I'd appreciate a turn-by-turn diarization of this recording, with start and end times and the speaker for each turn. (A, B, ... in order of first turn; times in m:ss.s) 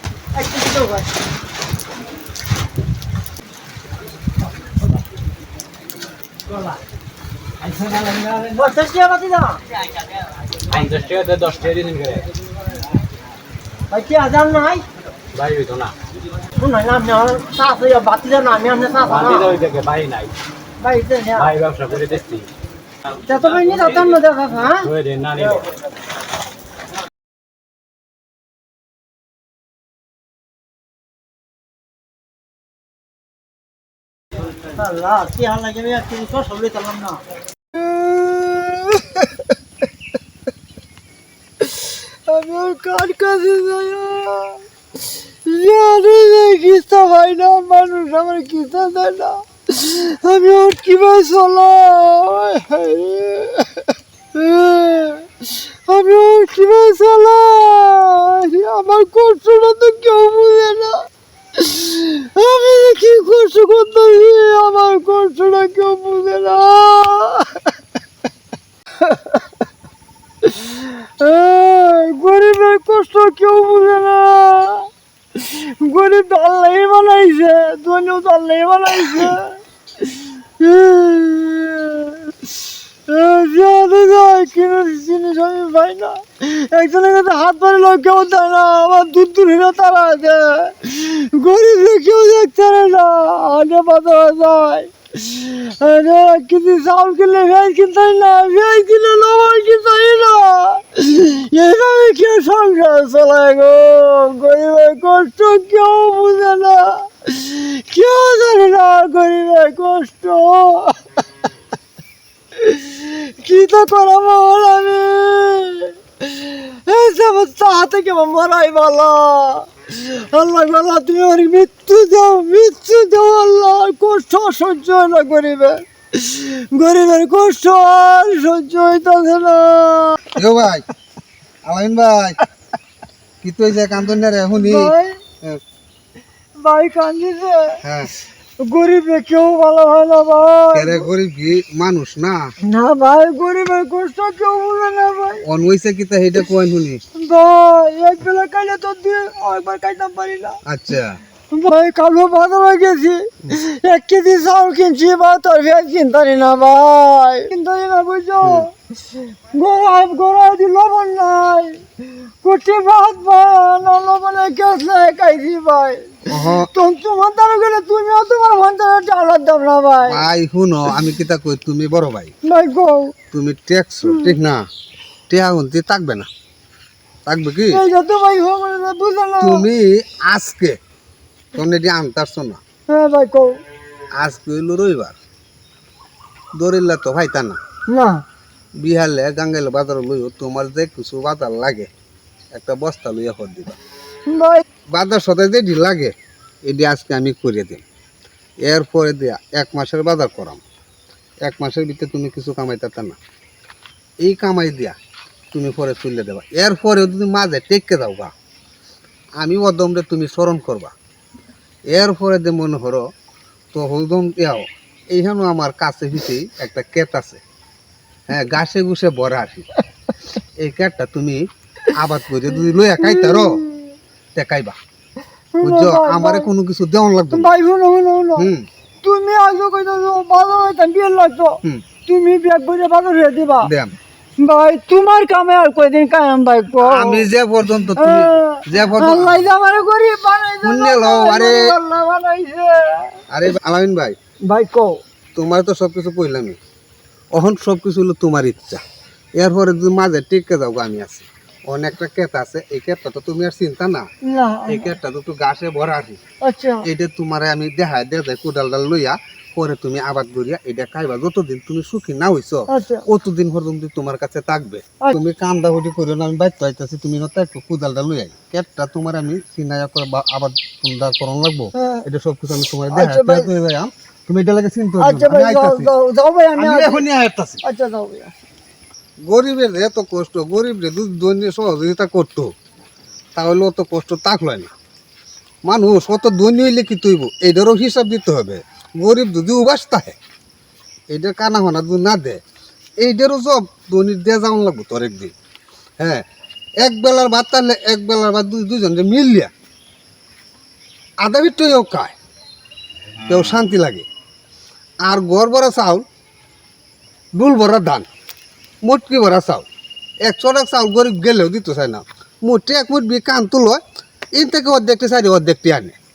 0:00.4-0:01.1 A
0:07.6-0:08.6 B
0:08.6-0:09.6 A
0:10.7-0:12.3 B
0:13.9-0:14.8 A
0:15.3-0:15.9 B
0:16.6-0:19.5 A
0:19.1-0:20.3 B
0:20.8-0:21.5 A
0:21.4-0:22.5 B
0:23.2-0:24.9 A
0:24.8-0:25.6 B
0:34.7-0:37.2 A
0:37.7-0:39.2 A
0:41.6-0:44.6 A
0:45.5-1:01.0 A
1:01.6-1:07.6 A
1:09.0-1:09.4 A
1:10.4-1:19.6 A
1:20.6-1:22.2 A
1:23.1-1:51.0 A
1:52.6-2:10.4 A
2:10.4-2:10.8 C
2:11.7-2:12.4 C
2:13.4-2:15.6 C
2:14.5-2:15.2 A
2:16.6-2:17.8 A
2:17.8-2:18.1 C
2:18.6-2:21.1 A
2:20.7-2:22.5 C
2:22.6-2:25.4 A
2:25.4-2:27.0 C
2:27.2-2:30.6 A
2:30.7-2:31.2 C
2:31.5-2:38.7 A
2:39.5-2:41.8 A
2:42.4-2:50.3 A
2:46.3-2:46.7 C
2:50.1-2:52.3 C
2:52.4-2:53.1 A
2:53.3-2:54.6 C
2:54.1-2:54.4 A
2:55.3-2:56.3 C
2:57.3-2:57.8 C
2:57.7-2:59.7 A
2:59.4-3:00.8 C
3:01.5-3:02.6 C
3:02.9-3:03.6 A
3:04.2-3:05.2 C
3:06.6-3:07.6 C
3:07.9-3:08.2 A
3:08.8-3:11.9 C
3:12.5-3:13.8 C
3:14.3-3:14.6 A
3:14.9-3:16.1 C
3:16.7-3:17.8 C
3:18.6-3:20.6 C
3:21.4-3:23.2 C
3:24.2-3:25.0 C
3:25.5-3:28.3 C
3:29.4-3:30.9 C
3:31.9-3:33.1 C
3:33.7-3:37.4 C
3:38.3-3:39.7 C
3:40.6-3:43.6 C
3:43.0-3:43.9 A
3:44.4-3:44.8 C
3:45.6-3:46.5 A
3:45.6-3:47.5 C
3:47.3-3:48.5 A
3:48.4-3:48.7 C
3:49.0-3:53.7 A
3:53.6-3:54.0 C
3:54.4-3:57.3 A
3:56.8-3:59.5 C
3:58.0-4:03.2 A
4:00.6-4:01.7 C
4:03.3-4:04.2 C
4:04.5-4:05.0 A
4:05.4-4:06.6 C
4:07.3-4:08.8 C
4:09.4-4:14.1 C
4:14.2-4:14.9 A
4:14.7-4:16.2 C
4:16.4-4:16.9 A
4:16.8-4:35.9 C
4:22.7-4:23.1 A
4:31.7-4:32.0 A
4:32.9-4:33.5 A
4:35.0-4:37.0 A
4:36.6-4:37.6 C
4:37.6-4:38.3 A
4:39.2-4:42.5 C
4:43.4-4:44.7 C
4:45.7-4:50.2 C
4:51.1-4:52.4 C
4:53.0-4:55.3 C
4:56.0-4:56.2 C
4:56.8-4:59.5 C
5:01.2-5:02.2 C
5:03.3-5:04.1 C
5:05.0-5:06.0 C
5:07.4-5:08.1 C
5:08.8-5:09.7 C
5:10.2-5:13.8 C
5:14.4-5:16.0 C